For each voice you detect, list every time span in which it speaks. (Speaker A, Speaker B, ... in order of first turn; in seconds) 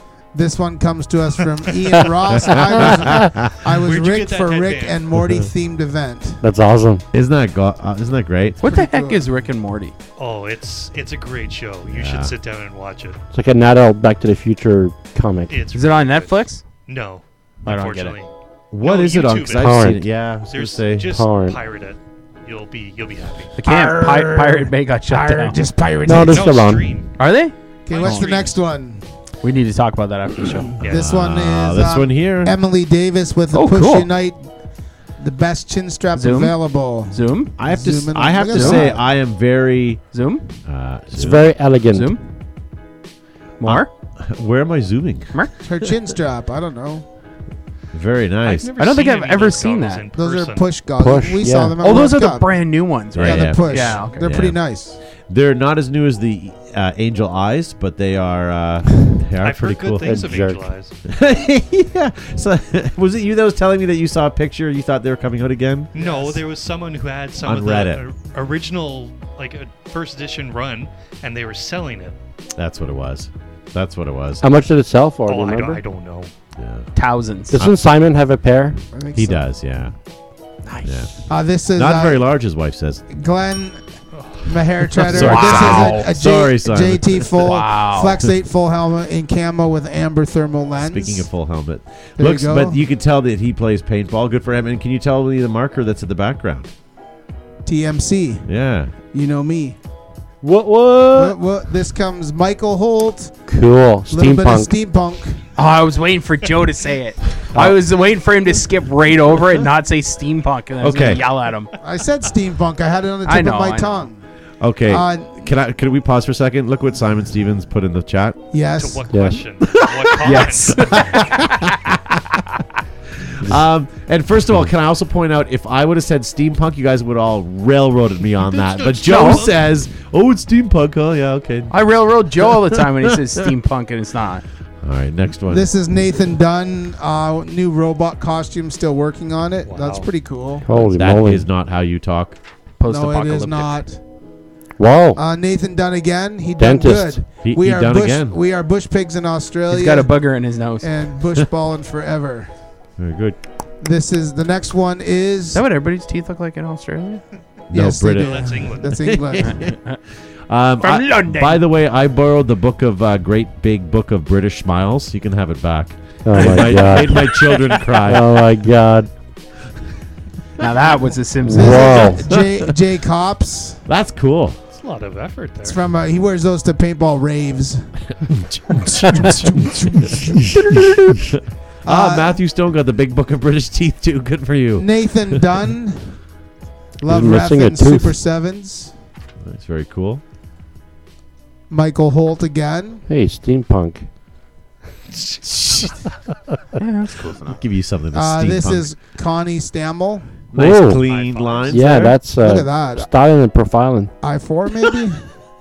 Speaker A: 0.3-6.4, 8.6-9.3, 23.6-26.6, 27.9-29.0, 30.6-34.4, 35.2-39.0, 45.6-47.0, 50.1-52.5, 53.2-55.0, 66.0-66.4, 78.9-79.4, 81.3-82.2, 83.1-83.8, 84.4-91.3, 92.2-92.8, 97.6-98.5, 99.1-99.8, 101.1-103.3, 104.1-105.4, 111.8-114.2, 114.9-115.4, 118.5-119.2, 135.5-140.8, 142.8-144.0, 145.2-150.1, 150.8-152.5, 153.8-155.6, 157.7-159.6, 171.5-173.8, 175.6-177.8, 178.8-180.8, 181.8-182.3, 184.8-186.1, 187.0-188.9, 191.7-193.0, 198.1-200.3, 202.4-203.1, 204.2-205.2
Speaker B: 2.4-3.5, 7.1-8.6, 11.8-12.3, 18.7-21.1, 30.9-32.5, 37.6-40.0, 40.6-41.5, 43.6-45.3, 47.9-48.7, 53.1-54.6, 55.3-60.2, 61.0-65.9, 67.4-68.0, 72.6-74.4, 76.6-76.9, 79.1-79.9, 80.8-81.1, 81.7-83.0, 85.1-87.5, 90.8-96.7, 98.5-98.9, 110.8-111.2, 114.6-118.4, 119.6-122.4, 123.2-131.8, 132.4-133.4, 134.8-135.7, 140.9-142.4, 147.4-148.4, 153.0-153.4, 157.7-159.8, 160.5-168.4, 172.3-172.7, 173.9-174.6, 178.2-185.6, 189.4-190.2, 195.2-196.0, 197.5-198.9, 200.5-202.2
Speaker C: 3.8-5.0, 10.2-13.2, 15.5-23.6, 26.1-27.1, 27.9-28.5, 30.8-31.1, 48.5-50.7, 59.4-60.9, 65.9-72.1, 75.2-76.3, 84.1-84.5, 118.8-121.5, 128.5-129.6, 139.7-140.1, 158.2-159.1, 174.7-175.8, 201.0-201.9
Speaker D: 6.4-7.0, 13.3-15.5, 19.6-20.1, 21.1-21.6, 26.1-27.0, 41.1-42.1, 51.0-51.8, 60.0-60.7, 74.4-75.8, 77.5-78.8, 100.4-101.4, 103.5-104.7, 119.1-119.4, 140.6-141.5, 144.8-145.2, 146.6-147.2, 166.2-167.3, 168.0-169.1, 171.4-172.3, 187.1-188.2, 193.1-194.1, 200.5-201.0, 201.7-204.1
Speaker E: 8.6-9.9, 15.7-16.6, 17.6-18.1, 23.6-25.6, 27.2-28.4, 29.4-30.8, 33.5-34.1, 36.1-37.5, 38.5-38.9, 40.1-40.6, 41.9-42.3, 43.6-43.9, 48.7-50.1, 51.8-54.2, 76.9-77.6, 85.0-86.1, 87.4-88.2, 105.5-111.7, 113.2-114.0, 120.2-121.0, 129.1-129.5, 131.7-134.4, 142.8-143.7, 149.7-150.9, 155.5-157.2, 159.4-160.0, 160.8-161.6, 166.5-167.6, 170.6-172.2, 196.8-197.6